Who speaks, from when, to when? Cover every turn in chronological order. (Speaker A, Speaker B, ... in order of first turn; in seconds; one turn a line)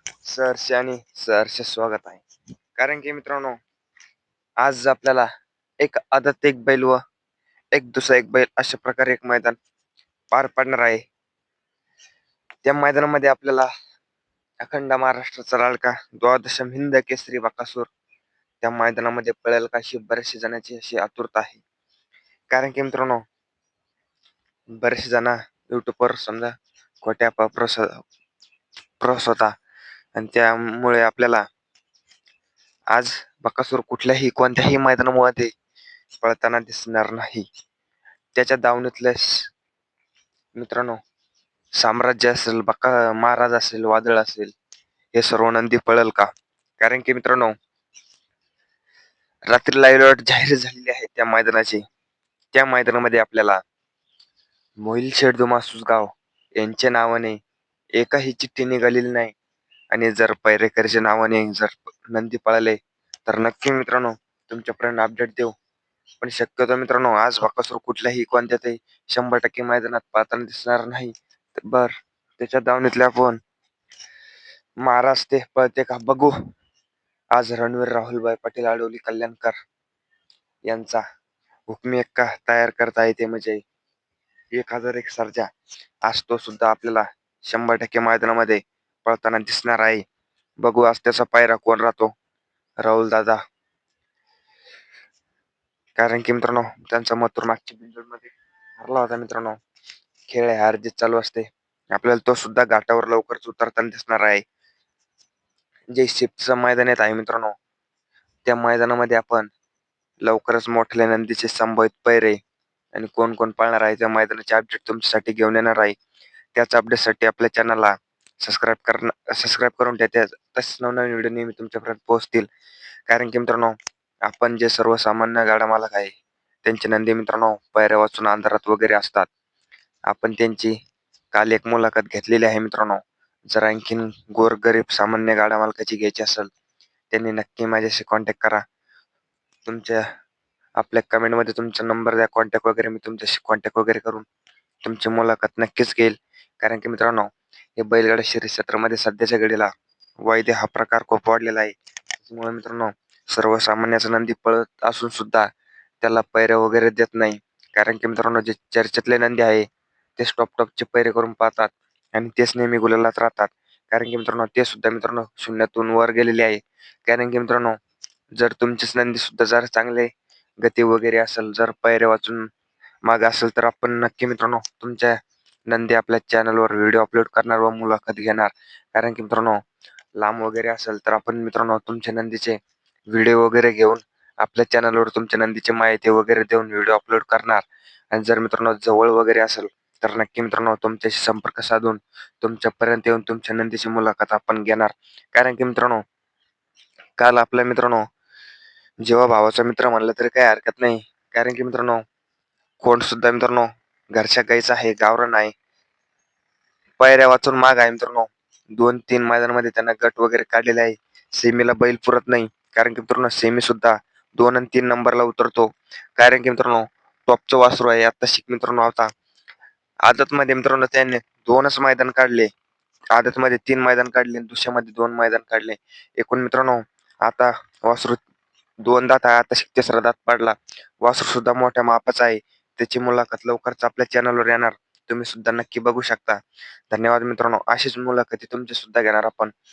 Speaker A: 0.2-2.2
Speaker A: 2.8-3.6
Speaker A: 4.6-5.3
Speaker A: 5.8-7.0
Speaker A: 7.7-9.6
Speaker A: 10.3-11.0
Speaker A: 12.6-13.7
Speaker A: 14.6-17.9
Speaker A: 18.6-21.6
Speaker A: 22.5-23.2
Speaker A: 24.8-27.9
Speaker A: 29.0-29.5
Speaker A: 30.1-31.4
Speaker A: 32.9-35.5
Speaker A: 36.2-37.5
Speaker A: 38.4-39.4
Speaker A: 40.5-41.0
Speaker A: 41.8-44.5
Speaker A: 45.1-47.5
Speaker A: 49.5-51.8
Speaker A: 52.5-53.6
Speaker A: 54.8-57.4
Speaker A: 58.0-59.3
Speaker A: 59.9-65.5
Speaker A: 66.2-73.4
Speaker A: 74.8-76.3
Speaker A: 77.3-79.5
Speaker A: 80.7-81.0
Speaker A: 81.7-83.6
Speaker A: 84.5-85.5
Speaker A: 86.0-90.0
Speaker A: 90.6-92.1
Speaker A: 92.8-93.4
Speaker A: 96.0-99.6
Speaker A: 100.3-104.4
Speaker A: 105.9-107.5
Speaker A: 108.5-109.5
Speaker A: 110.2-112.4
Speaker A: 112.9-116.0
Speaker A: 116.5-122.5
Speaker A: 123.1-123.7
Speaker A: 124.3-126.1
Speaker A: 126.6-129.3
Speaker A: 130.1-130.7
Speaker A: 131.3-136.5
Speaker A: 137.1-138.6
Speaker A: 139.7-140.0
Speaker A: 140.8-144.2
Speaker A: 144.8-149.7
Speaker A: 150.2-155.5
Speaker A: 156.0-159.7
Speaker A: 160.2-167.8
Speaker A: 168.4-170.1
Speaker A: 170.6-172.5
Speaker A: 173.0-175.2
Speaker A: 175.7-179.6
Speaker A: 180.2-182.6
Speaker A: 183.1-196.0
Speaker A: 197.2-198.0
Speaker A: 199.0-202.0
Speaker A: 202.8-205.5
Speaker A: 207.0-219.1
Speaker A: 220.1-222.5
Speaker A: 223.1-228.2
Speaker A: 228.8-236.4
Speaker A: 236.9-239.5